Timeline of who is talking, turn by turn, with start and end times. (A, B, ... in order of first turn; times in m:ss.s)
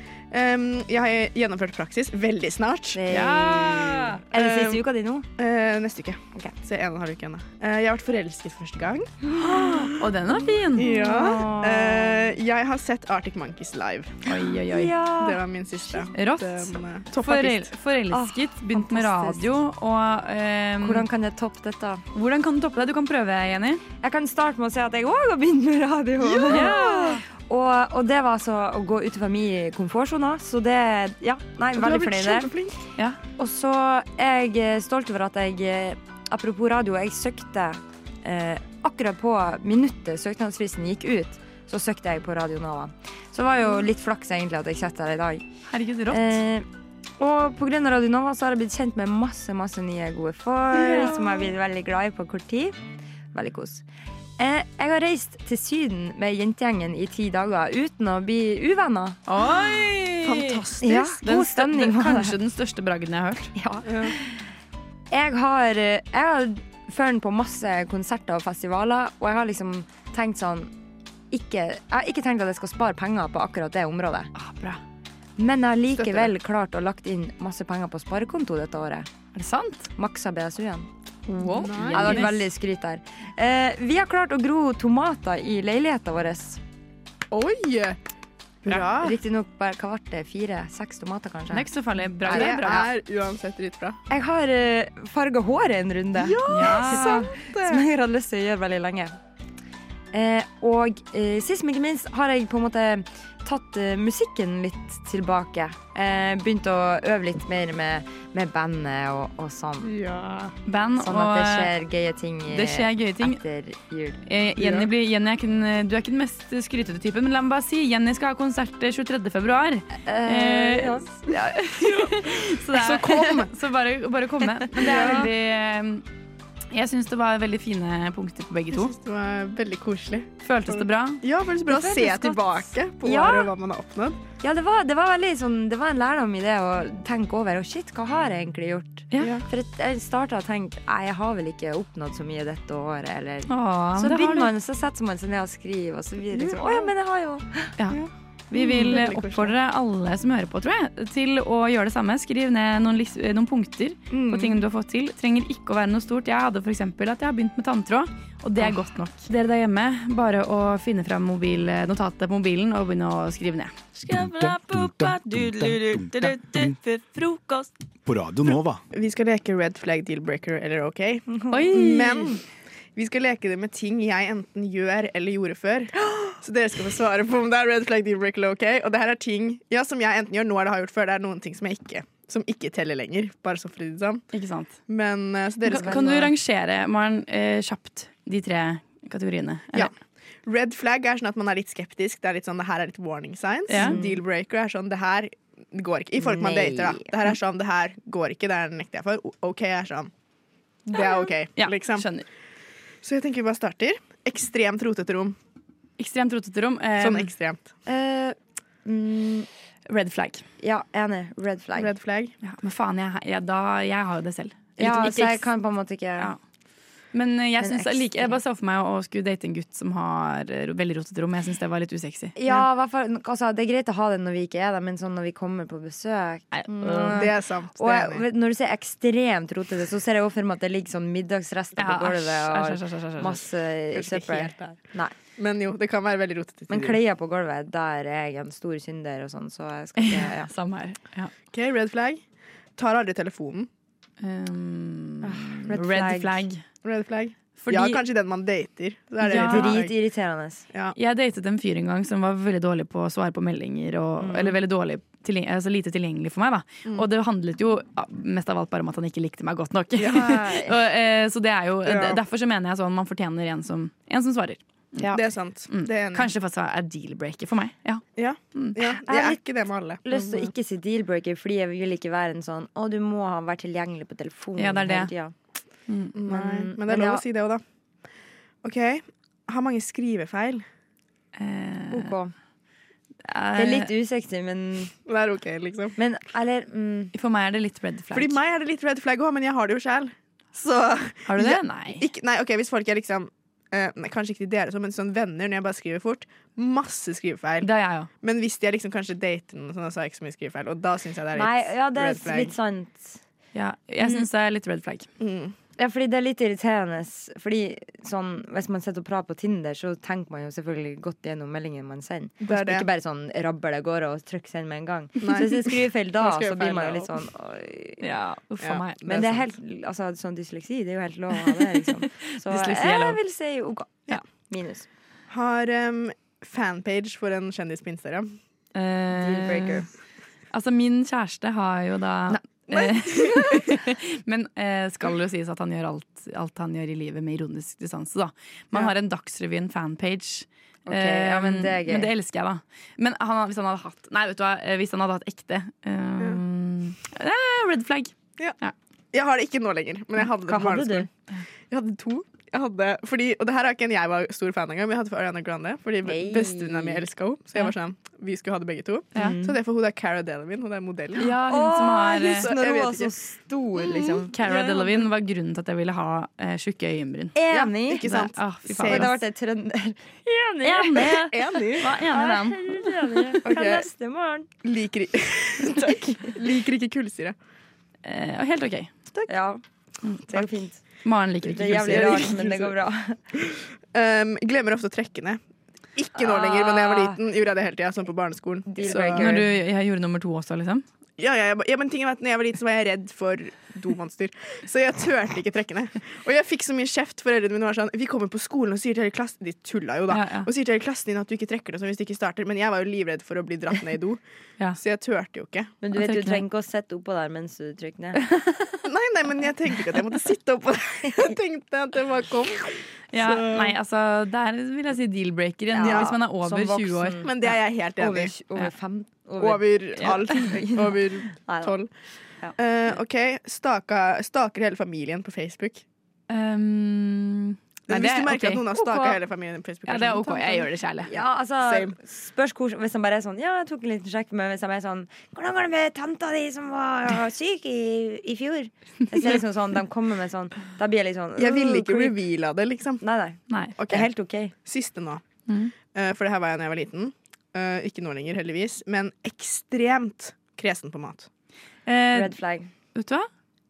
0:00.3-0:04.8 A
0:02.9-0:05.3 B
0:03.1-0:04.2 C
0:05.4-0:09.9 A
0:09.5-0:12.0 C
0:10.8-0:14.2 A
0:10.9-0:11.3 B
0:14.3-0:15.0 C
0:14.7-0:16.1 B
0:15.1-0:17.7 A
0:16.1-0:21.0 C
0:18.1-0:19.6 B
0:20.8-0:22.0 B
0:22.1-0:23.8 C
0:23.9-0:32.5 B
0:26.2-0:27.2 A
0:26.5-0:27.2 C
0:31.8-0:32.8 A
0:33.3-0:45.5 B
0:45.7-0:46.4 C
0:46.1-0:46.7 B
0:47.2-0:52.8 B
0:53.3-0:53.8 B
0:54.4-0:59.4 B
0:59.3-1:00.5 C
1:00.2-1:01.2 A
1:00.8-1:02.4 B
1:01.2-1:03.5 C
1:03.5-1:04.4 B
1:03.8-1:04.1 A
1:05.1-1:10.7 B
1:11.3-1:14.3 B
1:14.4-1:14.8 C
1:15.4-1:19.1 B
1:16.0-1:16.3 A
1:19.3-1:19.9 C
1:19.9-1:20.9 B
1:21.3-1:22.4 C
1:21.5-1:22.2 A
1:21.8-1:26.6 B
1:27.3-1:28.0 A
1:28.6-1:29.2 A
1:28.7-1:31.7 B
1:31.5-1:32.8 C
1:32.2-1:32.9 B
1:32.2-1:34.0 A
1:34.1-1:39.1 B
1:36.2-1:37.8 A
1:36.5-1:37.2 C
1:40.1-1:49.9 B
1:49.8-1:50.5 A
1:50.6-1:51.7 C
1:51.0-1:54.2 B
1:52.5-1:53.4 C
1:54.3-2:06.0 C
1:54.6-1:54.9 A
1:59.9-2:01.3 B
2:01.8-2:02.1 A
2:02.7-2:03.5 A
2:04.8-2:05.3 A
2:04.8-2:05.3 B
2:06.7-2:08.9 C
2:08.7-2:14.2 A
2:10.4-2:12.7 C
2:13.0-2:13.5 B
2:14.4-2:27.8 B
2:19.2-2:19.4 A
2:23.5-2:24.5 C
2:26.3-2:26.9 A
2:27.8-2:43.8 C
2:27.9-2:29.5 A
2:34.1-2:34.6 B
2:44.1-2:47.6 D
2:44.2-2:46.3 E
2:48.1-2:48.8 E
2:48.9-2:52.4 A
2:51.3-2:52.4 B
2:51.5-2:52.2 C
2:53.0-3:04.2 A
2:56.0-2:56.3 B
3:04.3-3:04.8 C
3:04.9-3:06.3 A
3:05.6-3:09.9 C
3:05.7-3:06.3 B
3:10.4-3:20.1 A
3:13.7-3:14.2 C
3:16.2-3:17.3 B
3:20.9-3:22.1 A
3:21.0-3:22.2 C
3:23.0-3:25.4 A
3:26.0-3:27.3 C
3:27.0-3:27.7 A
3:27.8-3:29.5 B
3:29.9-3:30.4 C
3:30.6-3:31.9 B
3:31.7-3:32.3 A
3:32.4-3:35.5 C
3:34.8-3:36.3 B
3:37.1-3:42.5 C
3:37.6-3:38.4 B
3:42.4-3:55.1 B
3:46.5-3:47.2 C
3:47.1-3:48.2 A
3:51.8-3:53.4 C
3:53.9-3:54.8 A
3:55.4-3:57.0 A
3:56.7-4:00.5 B
4:00.0-4:01.3 C
4:01.5-4:02.2 A
4:02.8-4:03.7 A
4:04.2-4:06.6 C
4:05.2-4:06.4 B
4:06.8-4:09.9 A
4:07.6-4:08.0 C
4:09.2-4:10.6 B
4:09.3-4:09.7 C
4:10.7-4:10.9 A
4:11.0-4:28.0 C
4:14.2-4:14.6 B
4:20.0-4:20.3 A
4:20.1-4:20.7 B
4:21.8-4:22.2 A
4:25.1-4:26.3 A
4:28.2-4:30.0 A
4:28.5-4:28.8 C
4:29.0-4:29.4 B
4:30.0-4:35.3 B
4:34.6-4:35.1 C
4:35.9-4:36.2 C
4:36.2-4:37.6 A
4:36.2-4:37.2 B
4:38.6-4:40.6 A
4:41.4-4:42.1 C
4:41.9-4:42.3 B
4:43.3-4:43.8 C
4:43.6-4:44.9 B
4:45.0-4:46.0 A
4:46.0-4:47.1 B
4:47.1-4:48.3 C
4:48.1-4:57.7 A
4:51.3-4:52.0 C
4:57.6-4:58.1 C
4:58.2-5:02.5 A
5:01.3-5:03.2 B
5:03.5-5:05.1 C
5:05.2-5:05.6 A
5:05.8-5:18.1 B
5:12.4-5:12.9 A
5:15.2-5:17.1 A
5:18.0-5:19.0 C
5:18.6-5:19.4 A
5:19.0-5:24.9 B
5:22.4-5:23.2 C
5:25.3-5:28.4 A
5:28.7-5:29.8 C
5:29.1-5:29.9 B
5:30.5-5:48.7 C
5:32.3-5:33.6 B
5:40.9-5:42.1 B
5:49.1-5:51.1 A
5:50.2-5:51.1 B
5:51.7-6:01.3 A
5:56.0-5:57.0 B
5:59.2-5:59.6 B
6:01.2-6:02.5 C
6:01.2-6:04.7 B
6:02.2-6:03.1 A
6:03.8-6:05.0 A
6:04.3-6:07.4 C
6:07.3-6:08.1 B
6:07.5-6:09.1 A
6:08.1-6:09.2 C
6:08.6-6:11.3 B
6:10.6-6:13.0 C
6:11.1-6:11.9 A
6:12.0-6:14.5 B
6:13.4-6:13.9 A
6:14.6-6:17.4 A
6:15.8-6:16.0 B
6:18.0-6:18.9 C
6:19.3-6:19.6 B
6:20.2-6:20.8 B
6:21.0-6:22.2 C
6:21.4-6:23.2 B
6:21.5-6:22.8 A
6:23.9-6:25.4 A
6:25.9-6:29.3 A
6:26.2-6:27.2 B
6:28.6-6:29.5 B
6:29.2-6:30.8 C
6:31.2-6:44.2 A
6:40.1-6:40.5 C
6:44.8-6:45.8 A
6:45.8-6:48.2 B
6:45.9-6:46.4 C
6:48.8-6:53.7 A
6:53.1-6:57.2 C
6:55.7-7:01.8 B
6:55.8-6:56.2 A
6:57.2-6:58.4 A
6:59.4-7:01.9 A
7:02.6-7:05.8 A
7:06.3-7:09.2 C
7:07.9-7:10.7 A
7:09.8-7:11.1 C
7:11.0-7:22.2 B
7:11.6-7:12.0 A
7:21.4-7:23.0 A
7:23.0-7:24.5 B
7:23.5-7:23.7 C
7:23.8-7:25.3 A
7:25.8-7:31.3 A
7:31.9-7:32.4 C
7:32.1-7:32.7 B
7:32.9-7:33.3 C